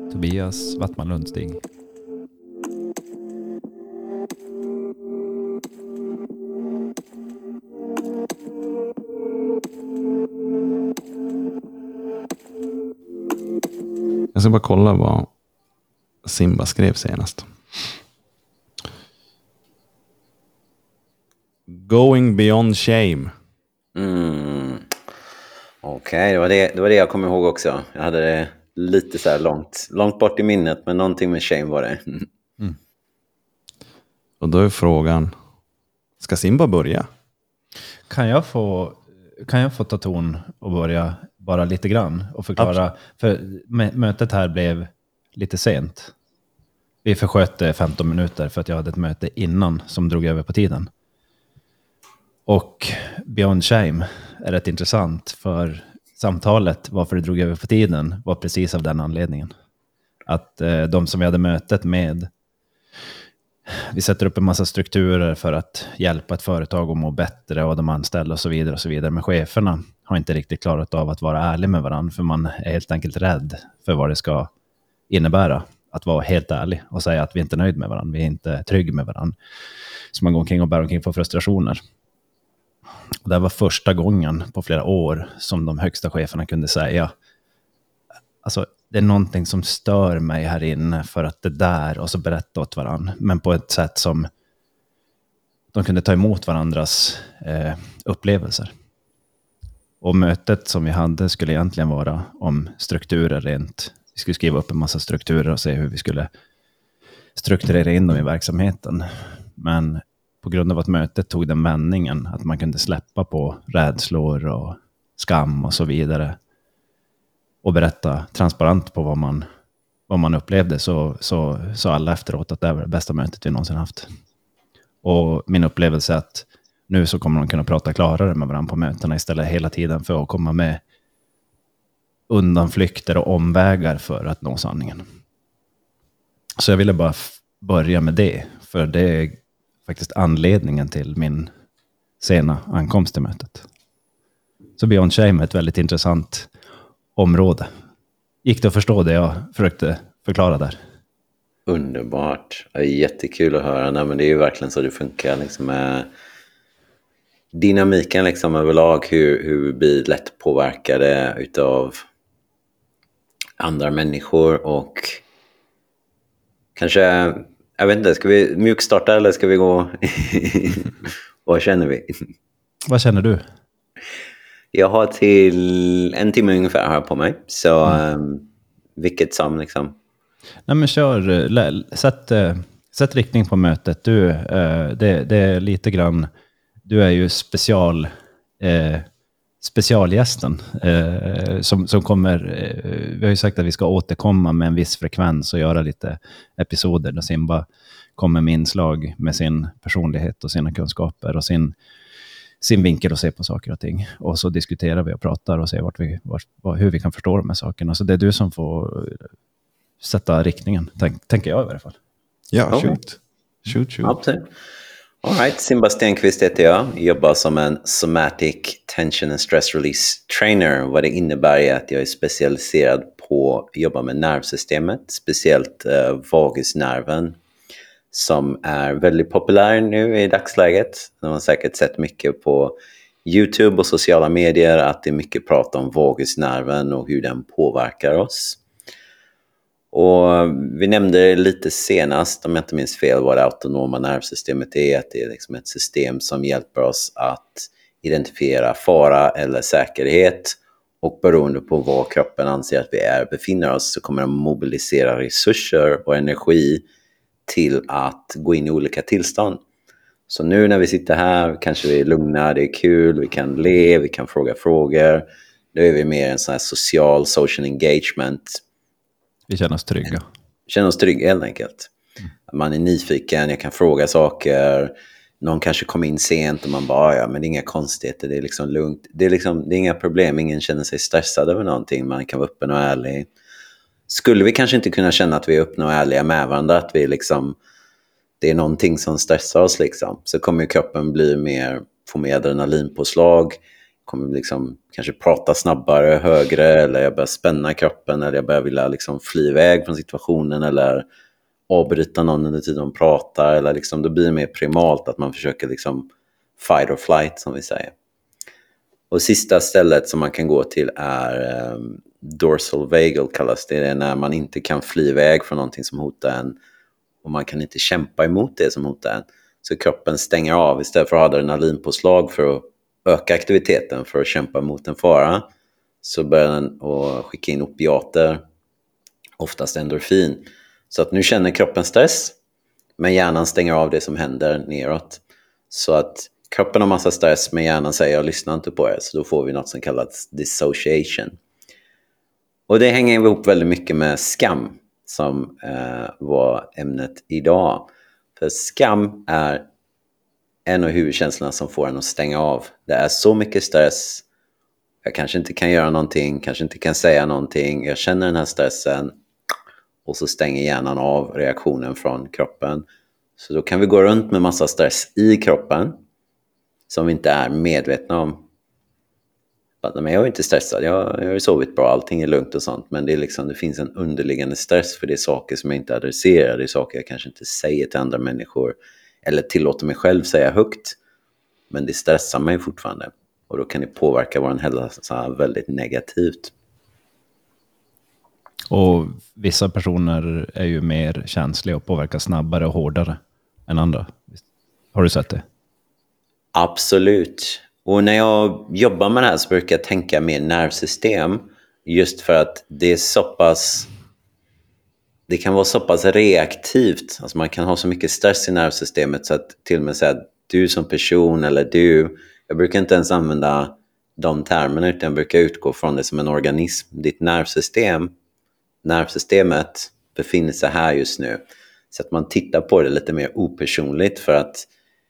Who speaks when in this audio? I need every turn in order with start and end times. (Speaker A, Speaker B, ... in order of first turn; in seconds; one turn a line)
Speaker A: 0.1-1.6
Speaker B: 14.3-15.3
Speaker B: 16.2-17.5
Speaker B: 21.7-23.3
Speaker C: 23.9-24.9
Speaker C: 25.8-32.3
Speaker B: 34.4-35.3
Speaker B: 36.2-37.1
Speaker A: 38.1-46.1
Speaker A: 47.0-50.9
Speaker A: 52.5-59.5
Speaker A: 60.2-62.3
Speaker A: 63.7-74.5
Speaker A: 75.1-79.3
Speaker A: 80.1-81.8
Speaker A: 83.2-87.1
Speaker A: 88.4-94.3
Speaker A: 95.7-98.7
Speaker A: 100.0-106.3
Speaker A: 107.3-116.4
Speaker A: 117.6-119.4
Speaker A: 120.1-124.1
Speaker A: 125.0-130.8
Speaker A: 132.3-135.0
Speaker A: 136.6-141.5
Speaker A: 142.2-143.7
Speaker A: 144.8-146.5
Speaker A: 147.2-147.7
Speaker A: 148.4-150.8
Speaker C: 151.7-156.1
Speaker C: 157.5-162.0
Speaker C: 163.6-165.2
Speaker C: 166.8-172.2
Speaker A: 172.8-173.4
Speaker C: 174.7-179.9
Speaker A: 180.7-186.3
Speaker A: 186.8-189.1
Speaker A: 189.6-197.7
Speaker A: 198.2-201.7
Speaker A: 202.6-209.3
Speaker A: 210.0-212.0
Speaker B: 212.5-214.1
Speaker C: 212.7-212.9
Speaker A: 213.7-214.1
Speaker C: 214.0-214.5
Speaker C: 215.2-227.4
Speaker C: 228.1-238.6
Speaker C: 239.9-256.8
Speaker C: 257.5-259.6
Speaker C: 260.3-268.6
Speaker A: 269.5-270.2
Speaker C: 270.7-271.9
Speaker C: 272.5-283.3
Speaker C: 284.1-287.6
Speaker C: 288.4-301.1
Speaker C: 301.7-307.9
Speaker C: 309.1-316.6
Speaker C: 317.2-325.5
Speaker C: 326.0-328.4
Speaker C: 329.4-332.3
Speaker C: 333.0-341.4
Speaker C: 342.7-349.6
Speaker C: 350.6-354.2
Speaker C: 355.0-359.1
Speaker C: 360.0-362.9
Speaker C: 363.4-366.0
Speaker C: 366.9-368.4
Speaker C: 369.8-381.0
Speaker C: 381.7-386.5
Speaker A: 388.7-394.4
Speaker A: 394.9-395.4
Speaker C: 396.5-403.9
Speaker C: 405.3-418.1
Speaker C: 418.8-421.4
Speaker C: 421.9-424.7